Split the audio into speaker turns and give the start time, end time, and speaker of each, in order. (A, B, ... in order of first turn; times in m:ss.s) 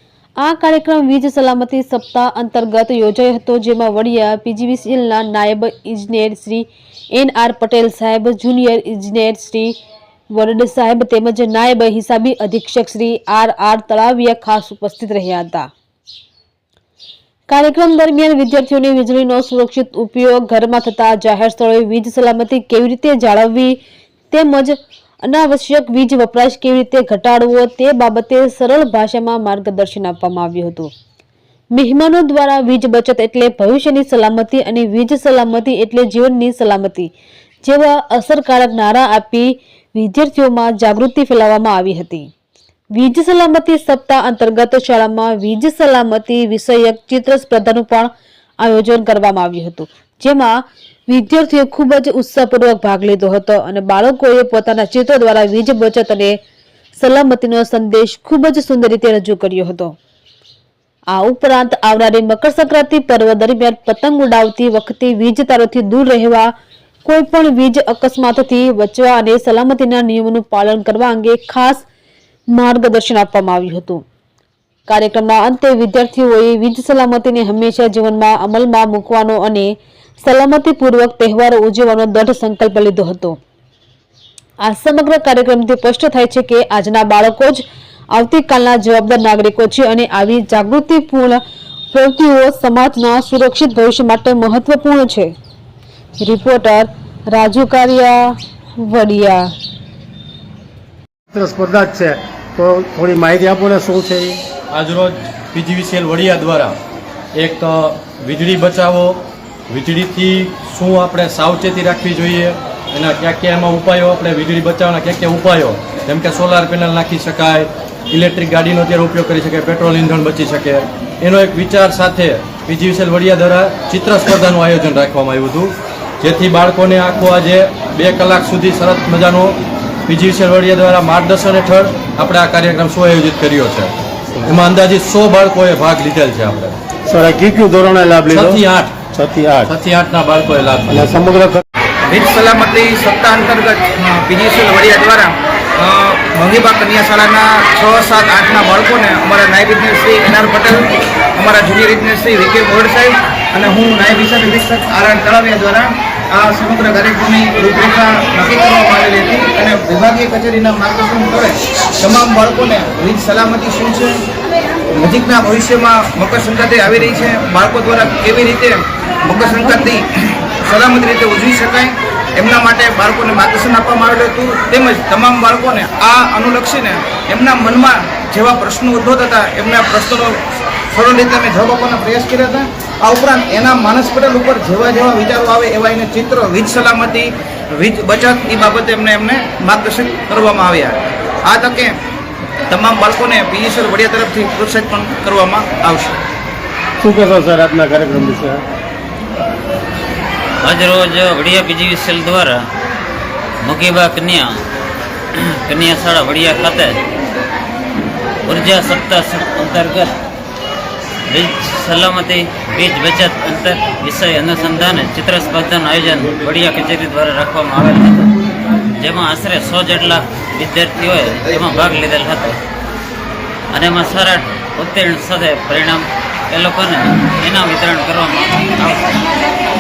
0:00.4-0:09.8 A
0:10.3-0:15.7 A
0:17.5-0:23.8 A
0:24.3-0:30.9 A
0:31.7-0:37.1 A
0:37.6-0:42.3 A
0:42.9-0:48.1 A
0:48.6-0:50.6 A
0:51.1-0:56.4 A
0:57.0-0:59.9 A
1:01.1-1:06.5 A
1:07.0-1:11.8 A
1:12.5-1:14.0 A
1:14.9-1:23.4 A
1:24.6-1:31.4 A
1:31.9-1:35.3 A
1:36.2-1:39.5 A
1:41.3-1:44.4 B
1:44.7-1:46.8 C
1:47.3-2:09.6 C
2:10.1-2:13.9 C
2:14.4-2:16.8 C
2:17.1-2:19.7 B
2:18.3-2:19.0 C
2:19.7-2:21.0 C
2:20.9-2:21.6 B
2:22.1-2:44.2 D
2:44.9-3:11.9 D
3:12.7-3:16.2 D
3:17.0-3:18.6 B
3:20.6-3:22.6 E
3:23.6-3:24.5 E
3:25.4-3:27.0 E
3:28.4-3:30.1 E
3:31.3-3:38.4 E
3:39.0-3:42.6 E
3:43.7-3:49.2 E